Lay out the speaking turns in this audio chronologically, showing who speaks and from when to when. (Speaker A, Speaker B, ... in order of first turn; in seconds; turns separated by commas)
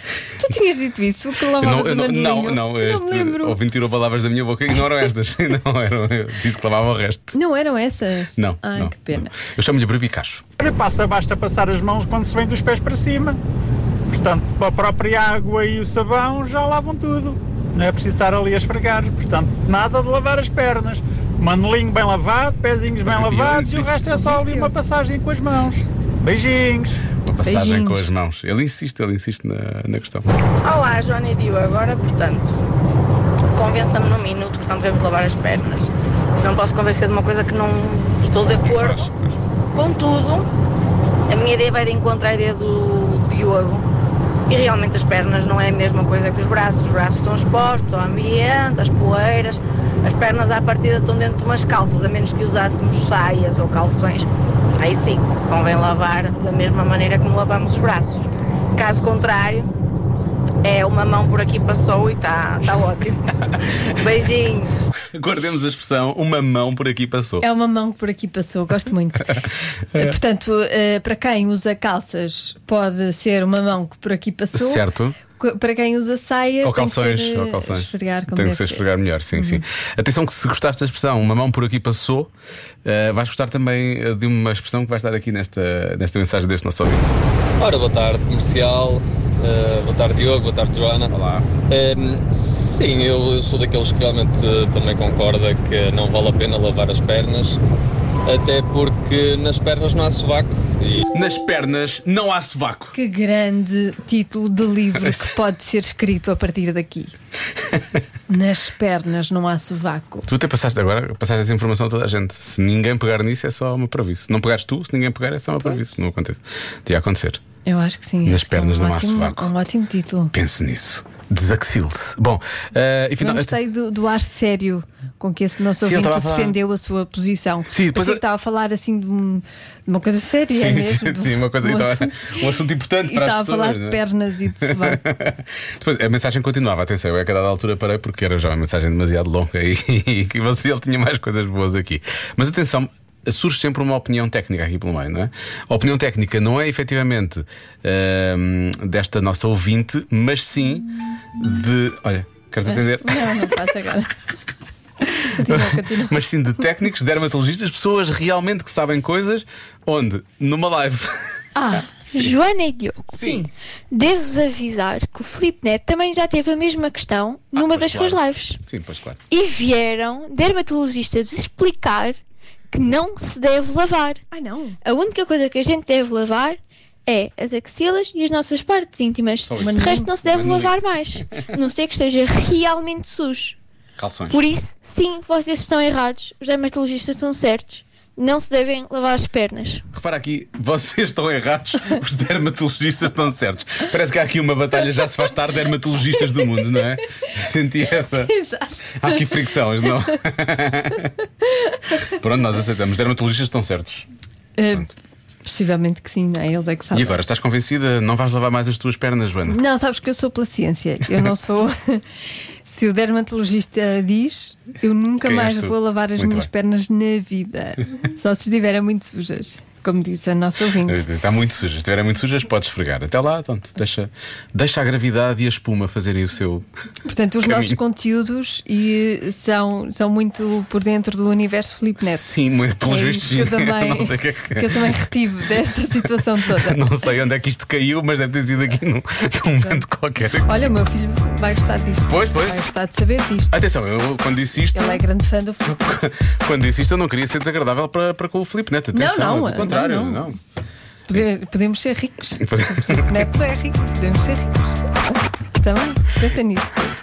Speaker A: 0.4-3.6, Speaker B: 1.6-7.4, Speaker A: 7.3-9.3, Speaker B: 8.4-10.4, Speaker C: 10.6-13.4, Speaker C: 14.1-27.0, Speaker B: 23.0-24.0, Speaker A: 24.0-24.7, Speaker B: 27.2-30.3, Speaker A: 27.4-28.1, Speaker D: 30.6-32.6, Speaker D: 33.5-39.1, Speaker D: 39.7-40.5, Speaker D: 41.3-43.9, Speaker D: 44.5-59.7, Speaker D: 60.6-63.3, Speaker D: 63.8-64.9, Speaker B: 65.1-67.5, Speaker A: 67.4-69.4, Speaker B: 69.3-70.2, Speaker A: 70.0-74.8, Speaker B: 74.5-75.2, Speaker A: 75.4-79.6, Speaker B: 76.6-82.3, Speaker B: 82.8-87.2, Speaker E: 87.6-91.1, Speaker B: 91.1-91.5, Speaker E: 91.7-97.6, Speaker E: 98.2-101.0, Speaker B: 101.1-103.0, Speaker A: 102.9-107.1, Speaker B: 105.0-105.3, Speaker A: 108.3-110.3, Speaker B: 110.3-117.4, Speaker A: 117.7-120.3, Speaker B: 118.2-119.5, Speaker B: 120.3-123.6, Speaker A: 123.2-132.4, Speaker B: 125.8-126.6, Speaker B: 127.7-128.2, Speaker B: 130.5-134.0, Speaker A: 133.1-135.0, Speaker B: 134.6-153.6, Speaker A: 152.7-154.1, Speaker A: 155.2-156.2, Speaker B: 155.3-161.3, Speaker A: 161.6-161.9, Speaker F: 162.1-163.3, Speaker B: 163.1-163.5, Speaker F: 163.9-168.6, Speaker B: 167.5-169.2, Speaker F: 169.3-172.2, Speaker F: 172.7-174.2, Speaker A: 174.3-174.8, Speaker F: 174.8-183.6, Speaker B: 179.4-180.8, Speaker A: 179.6-180.1, Speaker B: 184.0-184.4, Speaker F: 184.3-189.8, Speaker B: 189.9-198.3, Speaker A: 198.2-199.6, Speaker B: 199.0-201.1, Speaker A: 201.4-202.0, Speaker B: 202.0-204.1, Speaker A: 204.6-204.9, Speaker A: 205.4-207.2, Speaker B: 206.9-209.6, Speaker A: 209.5-212.1, Speaker A: 212.7-221.1, Speaker B: 215.2-216.5, Speaker B: 220.8-226.7, Speaker A: 227.1-232.2, Speaker B: 227.4-227.8, Speaker B: 232.0-235.0, Speaker A: 232.8-236.8, Speaker B: 236.4-240.7, Speaker A: 240.4-243.6, Speaker B: 242.1-242.7, Speaker B: 243.5-245.0, Speaker A: 244.7-245.8, Speaker B: 245.6-250.4, Speaker A: 248.9-250.3, Speaker A: 251.1-256.7, Speaker B: 252.4-253.3